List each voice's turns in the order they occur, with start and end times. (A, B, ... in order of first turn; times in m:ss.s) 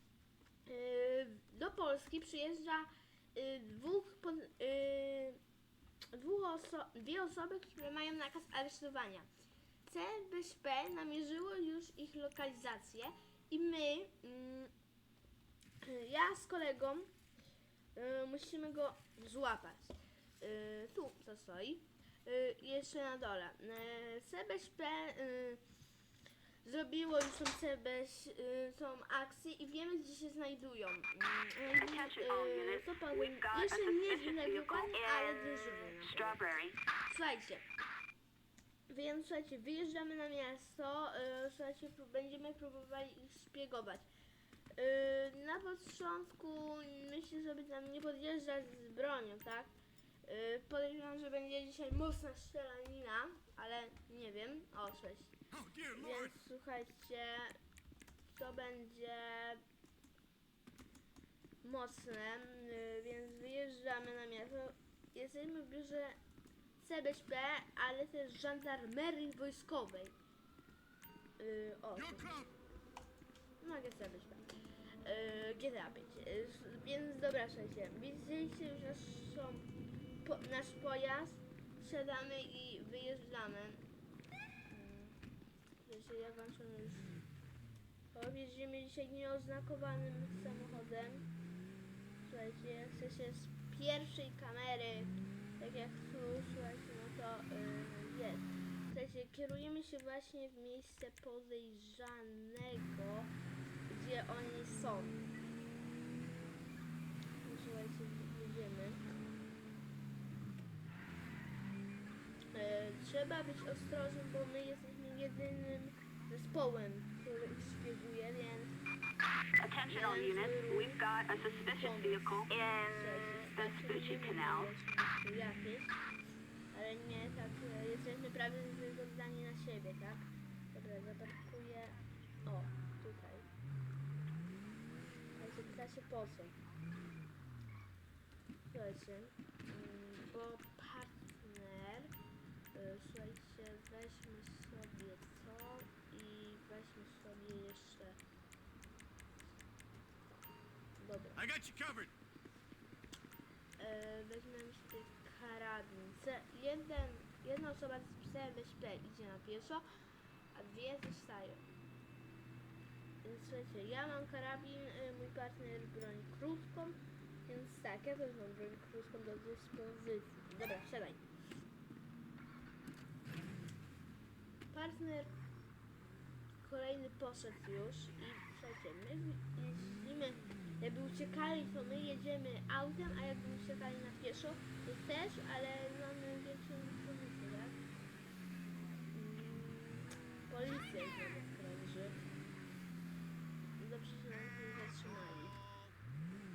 0:00.7-0:05.4 A
0:06.1-0:09.3 A
0:09.9-0:14.7 A
0:15.8-0:17.1 A
0:18.0-0:25.6 A
0:26.6-0:36.5 A
0:31.8-0:36.8 B
0:37.1-0:37.7 A
0:38.9-0:44.1 A
0:44.8-0:49.7 A
0:50.2-0:55.4 A
0:55.5-0:56.3 C
0:55.9-0:57.6 A
0:58.3-0:59.6 A
1:01.6-1:06.2 A
1:06.8-1:10.2 A
1:11.4-1:12.4 A
1:12.0-1:12.5 C
1:13.6-1:14.4 A
1:15.0-1:19.7 A
1:20.2-1:23.9 A
1:24.7-1:25.2 A
1:25.8-1:27.1 A
1:28.1-1:31.3 A
1:32.2-1:43.3 A
1:43.9-1:45.2 A
1:47.4-1:49.0 A
1:52.5-1:58.8 A
1:59.6-2:04.7 B
1:59.9-2:06.0 A
2:06.7-2:13.5 A
2:15.4-2:16.6 A
2:18.7-2:22.1 A
2:22.7-2:28.2 A
2:31.0-2:31.5 A
2:31.4-2:32.1 C
2:33.8-2:39.8 A
2:40.5-2:41.6 A
2:43.2-2:51.2 A
2:54.7-2:55.3 A
2:56.6-3:07.8 A
3:09.1-3:12.2 A
3:13.8-3:15.6 A